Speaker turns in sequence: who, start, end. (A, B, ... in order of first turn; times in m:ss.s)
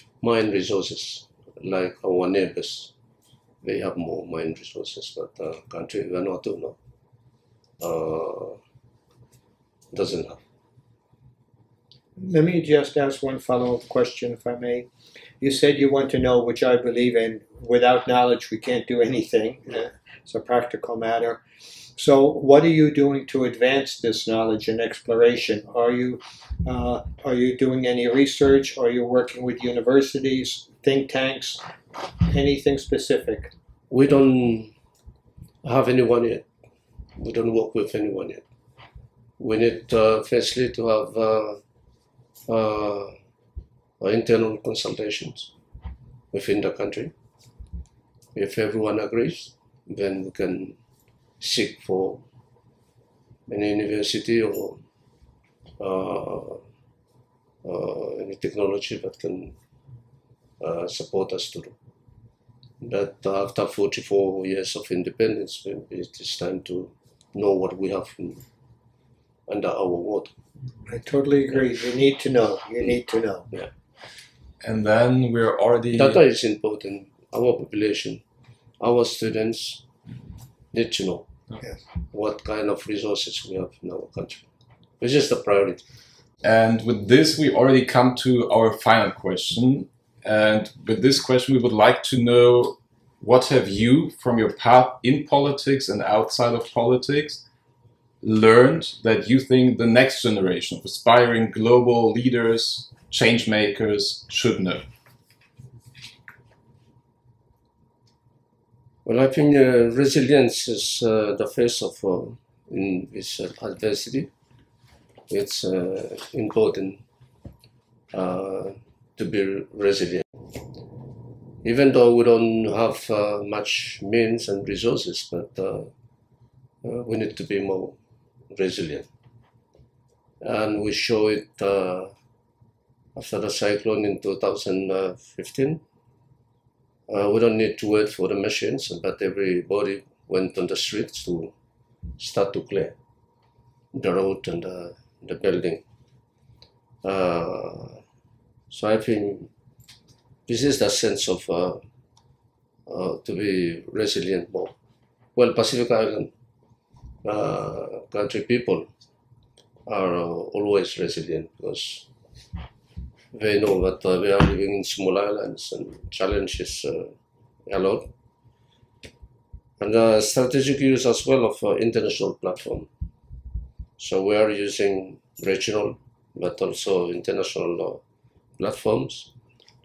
0:00.2-0:02.9 A
0:03.6-0:06.8 A
0:07.8-0:08.6 A
0:09.9-0:10.4 A
0:12.2-0:14.9 B
0:15.4-0:21.4 B
0:22.0-0:31.6 B
0:32.3-0:33.5 B
0:33.9-0:34.7 A
0:35.6-0:36.5 A
0:37.2-0:38.4 A
0:39.4-0:41.6 A
0:42.5-0:43.1 A
0:44.0-0:45.5 A
0:46.3-0:47.1 A
0:48.3-0:50.8 A
0:51.4-0:52.2 A
0:53.5-0:54.8 A
0:55.8-0:56.6 A
0:57.6-0:59.5 A
1:00.6-1:01.7 A
1:02.8-1:08.4 A
1:09.5-1:10.3 A
1:10.9-1:13.5 B
1:14.6-1:16.2 C
1:15.9-1:18.2 A
1:18.8-1:19.8 A
1:20.7-1:21.3 A
1:22.1-1:24.4 A
1:25.0-1:25.8 A
1:26.4-1:37.4 C
1:38.2-1:44.8 C
1:49.0-1:54.3 A
1:55.3-1:57.0 A
1:58.1-2:00.3 A
2:01.6-2:05.9 A
2:06.8-2:08.0 A
2:08.5-2:09.1 A
2:10.4-2:12.1 A
2:13.2-2:15.8 A
2:17.1-2:21.5 A
2:22.2-2:22.9 A
2:23.9-2:25.8 A
2:27.0-2:28.0 A
2:28.7-2:29.5 A
2:30.5-2:31.8 A
2:32.9-2:34.7 A
2:35.3-2:36.3 A
2:37.2-2:38.9 A
2:39.9-2:42.1 A
2:43.3-2:47.1 A
2:47.6-2:48.1 A
2:49.8-2:52.9 A
2:54.0-2:58.0 A
2:58.6-2:59.3 A